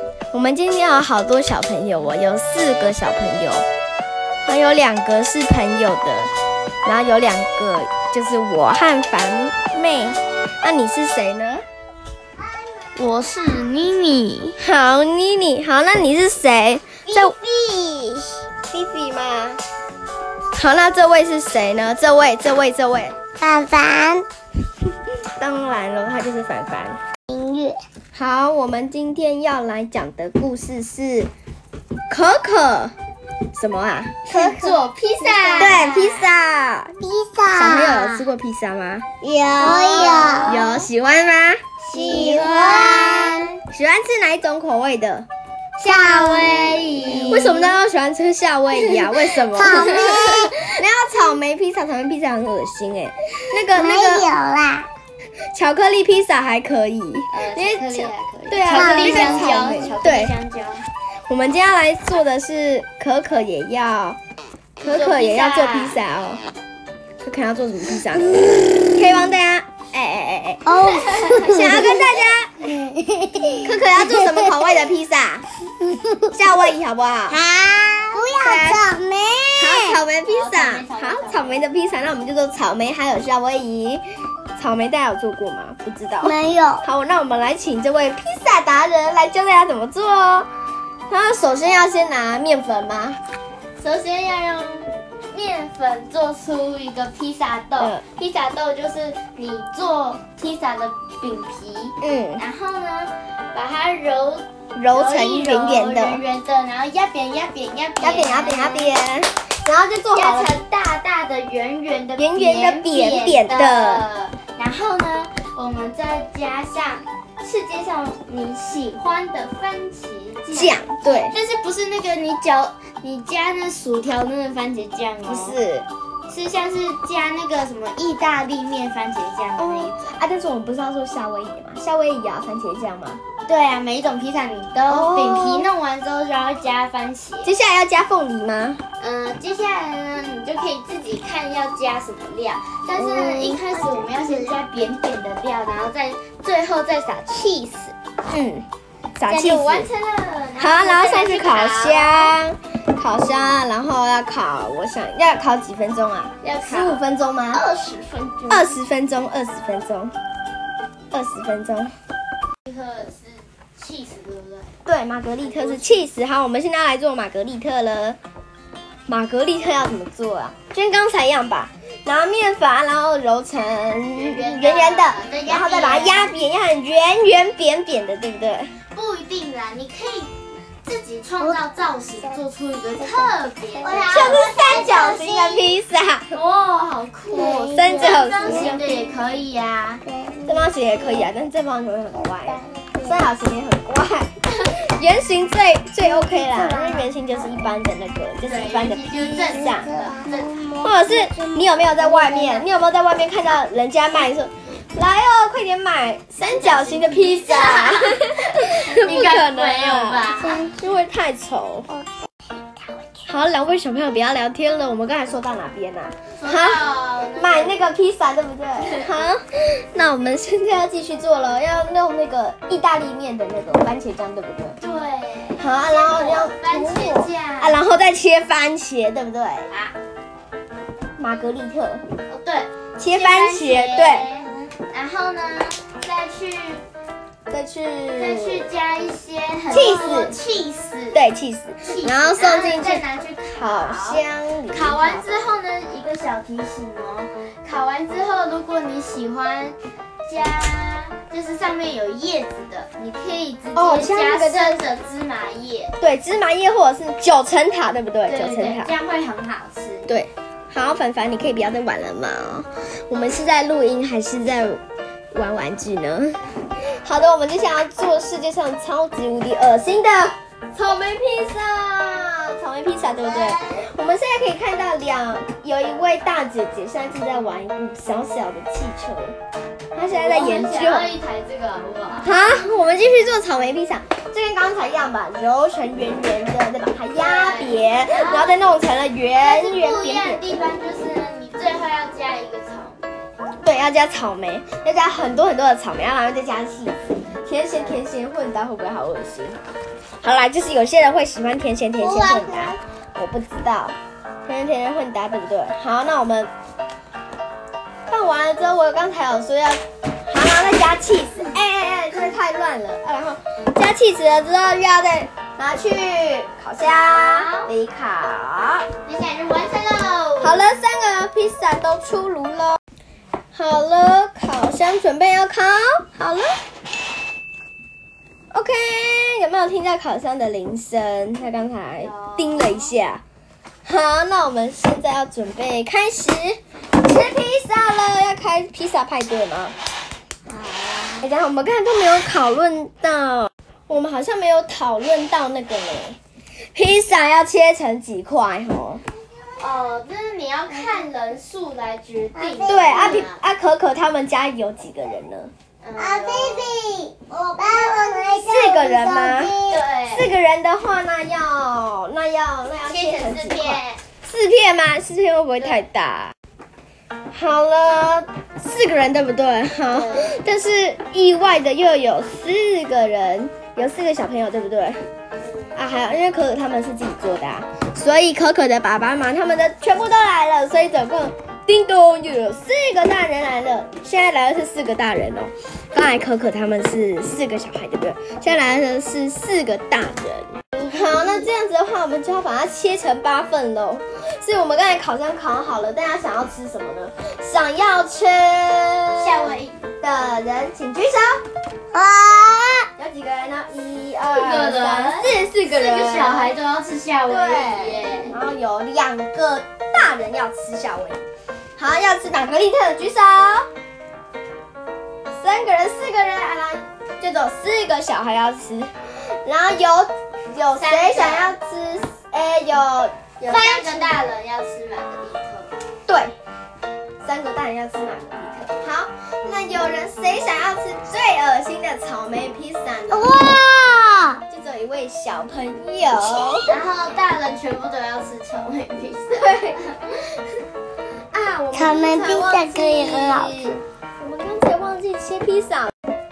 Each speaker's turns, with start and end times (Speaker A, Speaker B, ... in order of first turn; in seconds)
Speaker A: 0.3-3.6, 4.5-6.3, 6.8-11.6, 14.6-17.4, 18.7-19.6, 20.5-23.1, 25.4-27.0, 28.1-31.3, 32.1-32.9, 33.5-37.0, 37.5-39.0, 40.4-42.5, 43.7-45.3, 47.1-54.3, 55.5-60.3, 61.3-64.2, 64.8-66.4, 67.2-72.6, 73.6-75.5, 76.3-77.4, 78.4-78.8, 79.6-84.0, 84.6-90.5, 91.1-93.2, 102.0-102.5, 104.8-106.2, 108.0-110.5, 112.2-114.0, 120.5-121.3, 125.3-125.9, 129.6-133.2, 134.9-135.7, 137.4-138.8, 148.3-148.7, 149.2-149.9, 150.6-157.6, 158.5-160.1, 161.1-161.9, 164.8-168.2, 169.1-178.7, 184.1-186.3, 187.7-188.9, 190.5-199.9, 200.8-211.9, 213.3-224.8, 225.6-229.7, 231.2-232.0, 233.0-234.3, 237.5-238.7, 239.7-240.4, 241.1-245.3, 253.7-254.8, 256.0-258.9, 260.1-264.8, 265.3-266.4, 267.0-279.4, 279.9-281.1, 282.2-290.4, 293.6-299.6, 300.2-303.9, 304.4-306.5, 308.1-318.9, 320.4-322.8, 323.5-326.6, 328.5-333.2, 333.8-339.7, 341.2-346.2, 346.7-349.0, 352.6-355.5, 358.4-359.6, 360.1-366.3, 367.3-375.0, 375.8-401.4, 403.0-406.6, 407.3-411.2, 411.8-413.7, 415.3-424.2, 426.1-426.3, 427.2-433.4, 434.5-436.7, 439.3-439.8, 441.3-445.9
Speaker B: 12.7-13.0, 17.1-18.4, 23.4-24.3, 27.3-27.8, 37.0-38.2, 39.2-40.6, 41.9-43.5, 45.8-47.2, 49.3-50.7, 53.7-54.9, 58.6-59.9, 70.7-74.6, 75.9-76.3, 77.3-80.0, 86.2-86.8, 143.0-144.6, 183.8-185.8, 187.3-188.9, 190.1-191.3, 192.5-193.2, 196.2-197.1, 199.5-202.7, 302.0-302.8, 340.5-341.2, 352.4-353.2, 355.9-359.8, 401.9-402.9, 433.1-434.4, 441.7-443.8
Speaker C: 13.0-14.6, 34.3-36.3, 39.6-40.8, 41.8-43.6, 45.8-47.8, 57.3-60.8, 64.8-66.0, 80.3-81.6, 93.8-109.0, 110.1-125.6, 126.3-130.1, 133.5-137.5, 139.0-147.9, 149.2-152.3, 156.4-157.0, 157.5-158.8, 162.7-164.7, 165.4-166.1, 174.2-176.3, 178.9-184.5, 186.3-190.0, 198.4-200.6, 206.4-210.7, 216.4-217.8, 224.8-227.8, 232.2-236.8, 238.2-241.2, 241.8-255.9, 258.3-260.1, 280.0-282.4, 287.1-288.6, 289.4-293.0, 297.7-298.0, 316.8-317.7, 319.0-320.6, 332.0-332.9, 349.6-353.4, 355.8-356.7, 359.7-360.3, 362.8-364.0, 369.9-370.4, 375.4-375.8, 399.1-399.8, 404.3-408.4, 420.7-421.5, 423.4-425.7, 436.7-440.2